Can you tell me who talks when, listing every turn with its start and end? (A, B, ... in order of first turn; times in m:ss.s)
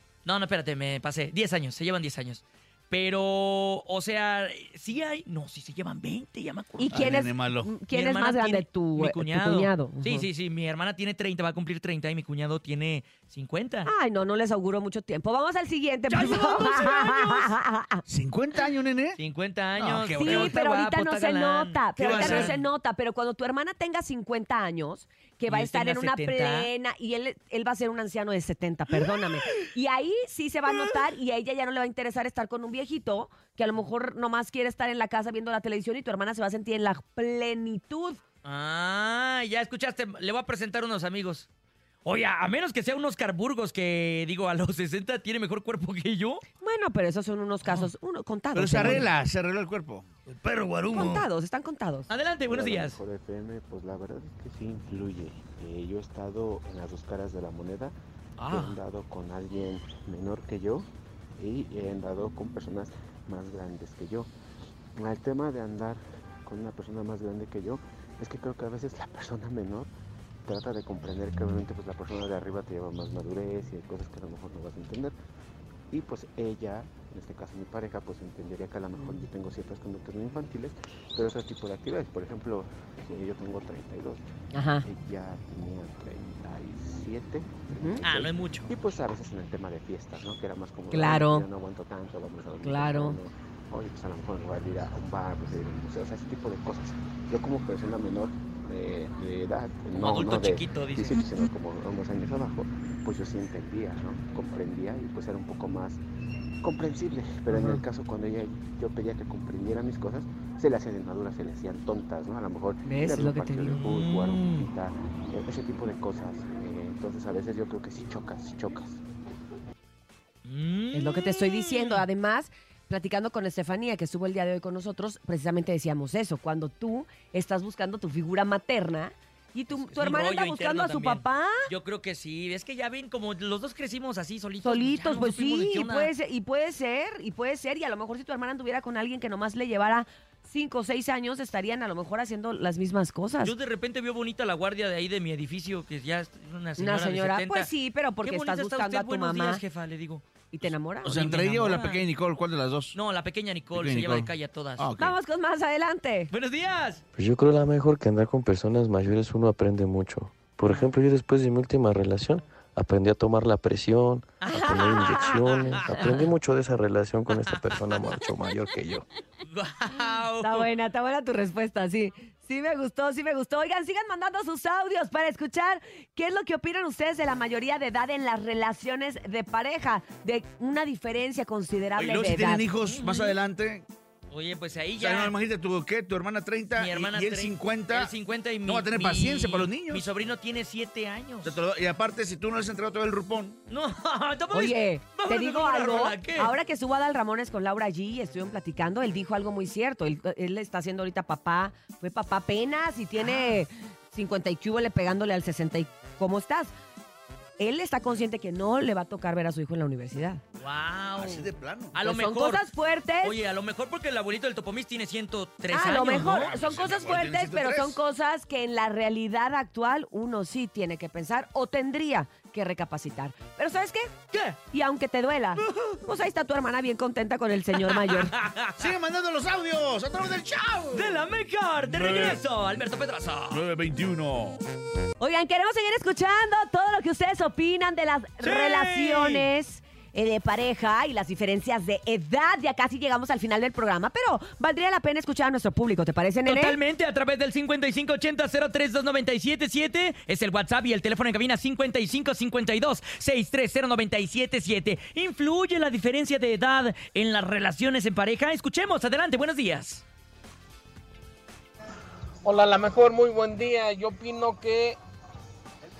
0:00.2-0:07.2 A
0:06.8-0:10.3 B
0:06.9-0:07.7 C
0:07.9-0:13.9 A
0:13.8-0:18.0 B
0:16.1-0:17.5 A
0:18.1-0:19.2 C
0:19.2-0:22.6 A
0:19.8-0:20.6 C
0:20.1-0:38.2 B
0:22.0-0:22.6 C
0:25.5-0:26.7 A
0:38.4-0:41.5 A
0:42.0-0:46.4 A
0:46.6-0:49.1 B
0:48.5-0:50.8 C
0:48.8-0:49.0 A
0:50.3-0:51.3 A
0:50.9-0:52.1 B
0:52.1-0:53.0 A
0:52.5-1:04.3 D
0:58.4-0:58.8 A
1:05.0-1:09.9 D
1:10.4-1:15.2 D
1:15.9-1:24.2 D
1:19.0-1:19.2 B
1:24.5-1:24.9 B
1:24.8-1:46.0 D
1:27.7-1:28.0 B
1:28.0-1:28.7 A
1:30.9-1:31.4 B
1:32.6-1:33.2 B
1:39.9-1:41.2 A
1:46.6-1:59.0 D
1:47.5-1:47.8 B
1:52.8-1:53.8 B
1:53.7-1:54.7 A
2:00.4-2:02.0 A
2:00.9-2:11.6 B
2:09.7-2:16.1 A
2:14.6-2:23.5 B
2:23.4-2:27.7 A
2:26.8-2:29.6 B
2:28.2-2:32.0 A
2:30.5-2:31.2 B
2:31.0-2:33.0 C
2:32.9-2:34.9 A
2:33.7-2:35.1 C
2:35.0-2:36.3 B
2:36.3-2:37.0 A
2:37.2-2:49.0 E
2:44.4-2:46.2 A
2:44.5-2:45.4 B
2:47.5-2:48.1 A
2:49.4-2:50.7 A
2:50.4-3:02.7 B
3:02.0-3:03.9 C
3:02.8-3:03.4 A
3:04.3-3:05.3 A
3:05.0-3:10.1 C
3:06.7-3:11.5 A
3:11.4-3:13.6 C
3:13.7-3:16.5 A
3:14.5-3:26.7 B
3:27.6-3:30.4 B
3:30.6-3:32.7 A
3:31.2-3:32.0 C
3:32.0-3:33.4 B
3:33.2-3:36.6 A
3:35.7-3:44.1 B
3:35.9-3:38.0 C
3:44.3-3:44.6 A
3:44.7-3:48.4 B
3:45.6-3:46.0 A
3:47.8-3:48.9 A
3:48.8-3:51.2 C
3:50.9-3:53.6 A
3:51.8-3:52.4 C
3:53.5-3:54.6 C
3:55.2-4:06.8 B
3:58.4-3:59.5 A
4:06.4-4:20.0 A
4:22.4-4:25.0 F